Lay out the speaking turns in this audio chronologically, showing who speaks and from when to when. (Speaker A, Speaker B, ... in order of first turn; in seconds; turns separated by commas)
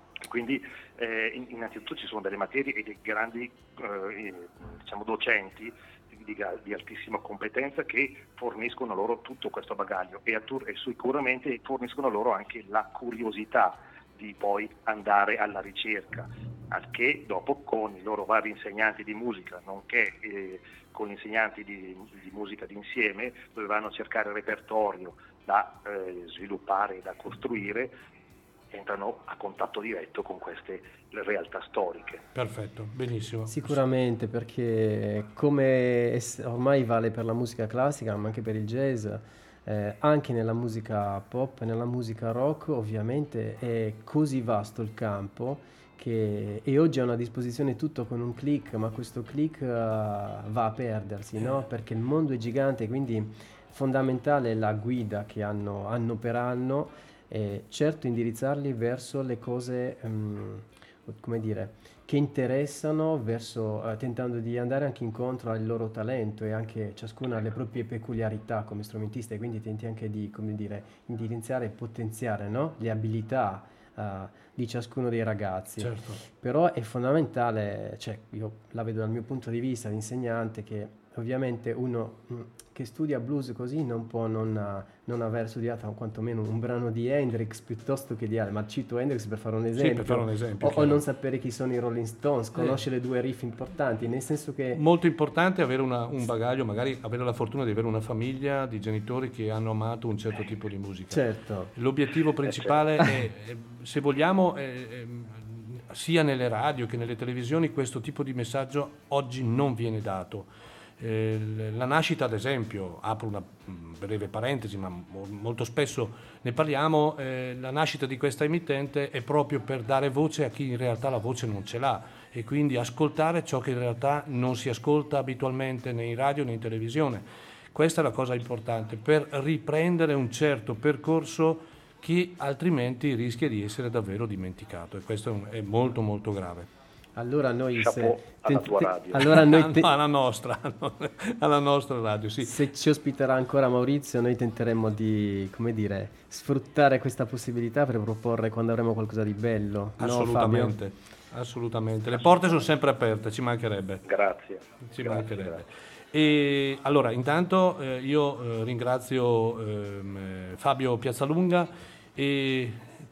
Speaker A: 0.2-27.9, Speaker A: 28.7-32.2, Speaker B: 32.3-33.8, Speaker C: 33.5-94.8, Speaker B: 75.8-76.2, Speaker B: 89.7-91.0, Speaker B: 92.5-92.8, Speaker B: 94.7-101.2, Speaker C: 101.1-101.7, Speaker B: 101.7-110.5, Speaker B: 111.0-136.7, Speaker C: 137.2-139.9, Speaker A: 137.8-139.2, Speaker B: 139.2-142.6, Speaker C: 142.4-150.8, Speaker B: 150.0-154.0, Speaker A: 154.0-155.6, Speaker B: 154.9-162.9